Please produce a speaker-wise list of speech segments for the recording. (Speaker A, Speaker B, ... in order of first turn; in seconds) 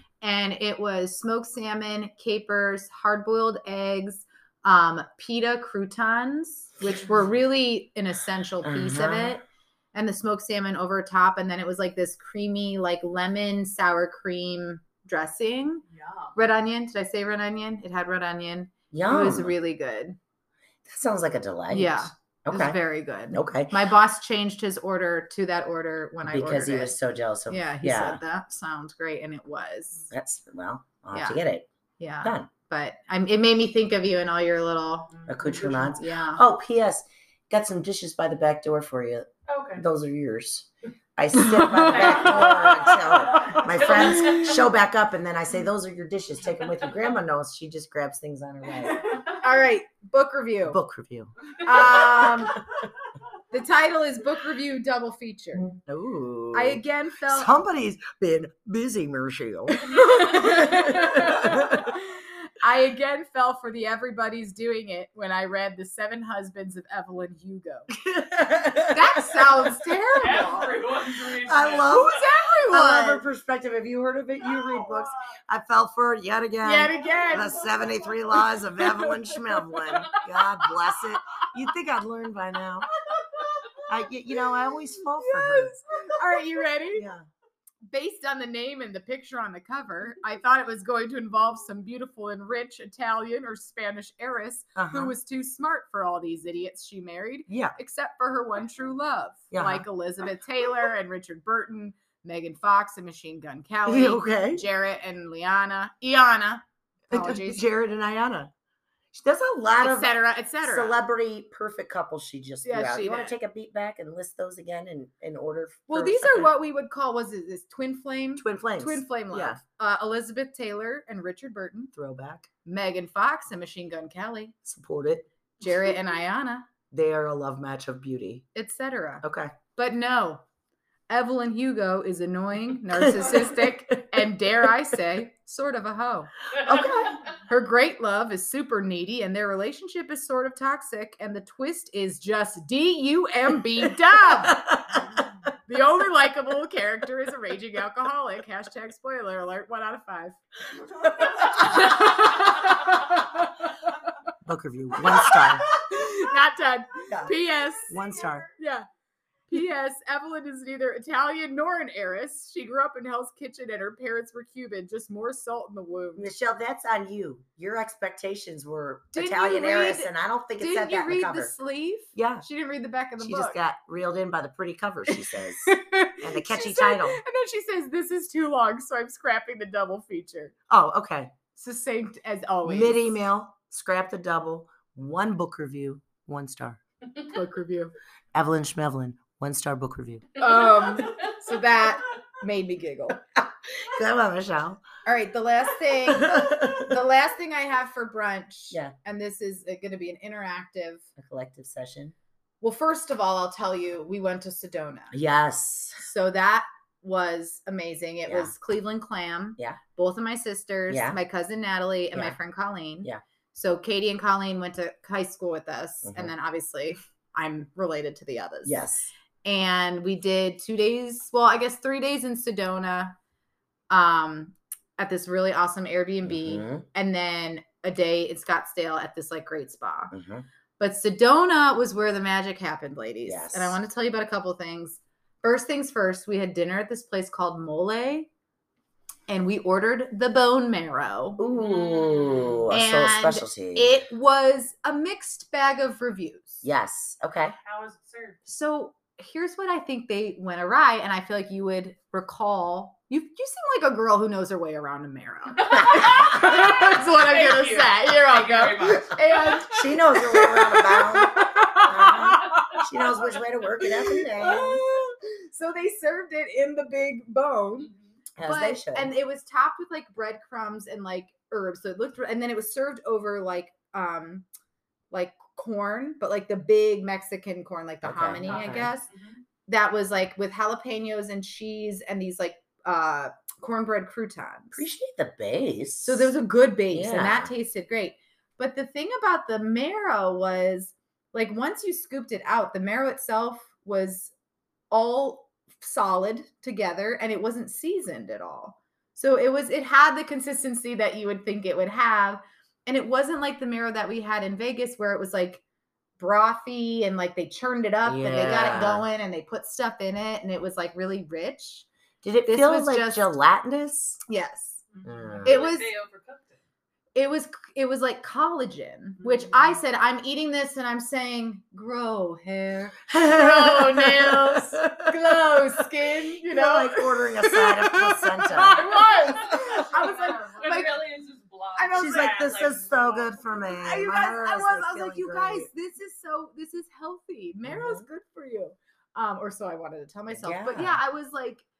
Speaker A: 0.2-15.8, 16.4-20.2, 21.7-27.0, 27.5-30.1, 31.1-31.4, 32.0-35.1, 36.0-36.4, 41.4-43.6, 49.2-50.8, 51.6-52.6, 53.5-55.8, 56.5-57.5, 59.7-67.9, 68.9-70.7, 71.9-73.2, 76.6-78.1, 78.8-79.2, 85.2-87.1, 87.9-107.6, 109.8-111.0, 112.6-113.4, 115.9-121.9, 122.7-124.6, 125.6-126.7, 128.5-129.2, 129.8-130.4, 131.1-136.3, 137.5-144.7, 145.7-153.6, 155.0-158.0, 158.6-158.9, 159.5-166.3, 169.1-173.6, 175.7-180.5, 181.6-183.2, 187.3-187.9, 190.4-193.2, 195.1-201.1, 202.6-205.2, 206.0-218.9, 219.4-223.2, 223.9-230.1, 230.8-238.3, 239.3-241.4, 242.7-246.6, 248.5-262.8, 263.9-267.9, 268.4-274.4, 275.1-279.1, 279.7-284.8, 286.0-294.3, 294.9-305.6, 306.2-311.9, 312.5-313.3, 314.3-314.9, 315.4-315.9, 317.1-331.0, 331.8-332.5, 333.8-341.7
Speaker B: 8.6-9.4, 18.9-19.6, 20.9-22.8, 23.3-23.8, 26.2-28.2, 30.1-31.7, 32.2-32.5, 35.3-49.2, 50.7-52.4, 55.7-61.9, 67.9-69.7, 71.3-82.9, 83.9-86.2, 86.9-87.3, 94.8-95.2, 97.5-97.8, 99.5-99.8, 103.9-104.7, 107.1-108.5, 109.1-116.5, 118.4-119.6, 121.9-122.5, 124.7-125.3, 126.9-128.5, 129.2-129.6, 133.0-134.2, 136.6-137.2, 144.3-145.0, 154.4-155.7, 157.1-157.3, 157.9-158.5, 166.2-171.5, 172.2-172.5, 173.2-177.2, 180.7-181.3, 182.7-186.8, 188.3-190.3, 193.3-194.8, 196.1-196.9, 201.2-202.2, 205.1-206.1, 208.3-208.5, 210.9-211.2, 216.1-216.3, 218.7-219.1, 226.2-226.9, 230.1-230.5, 233.3-233.8, 241.4-244.0, 246.6-247.6, 259.7-264.8, 268.4-269.1, 278.0-278.9, 284.7-286.3, 286.9-287.5, 308.1-309.1, 312.2-314.2, 315.0-315.6, 323.1-325.2, 326.4-330.1, 331.9-335.7, 337.6-338.1, 340.3-341.0
Speaker C: 15.9-16.4, 35.2-36.0, 39.5-39.9, 41.9-44.5, 70.2-72.2, 136.6-136.9, 241.5-242.6, 247.6-248.4, 255.6-259.7, 267.8-268.1, 278.5-279.4, 315.0-316.6, 319.2-319.7, 329.3-333.6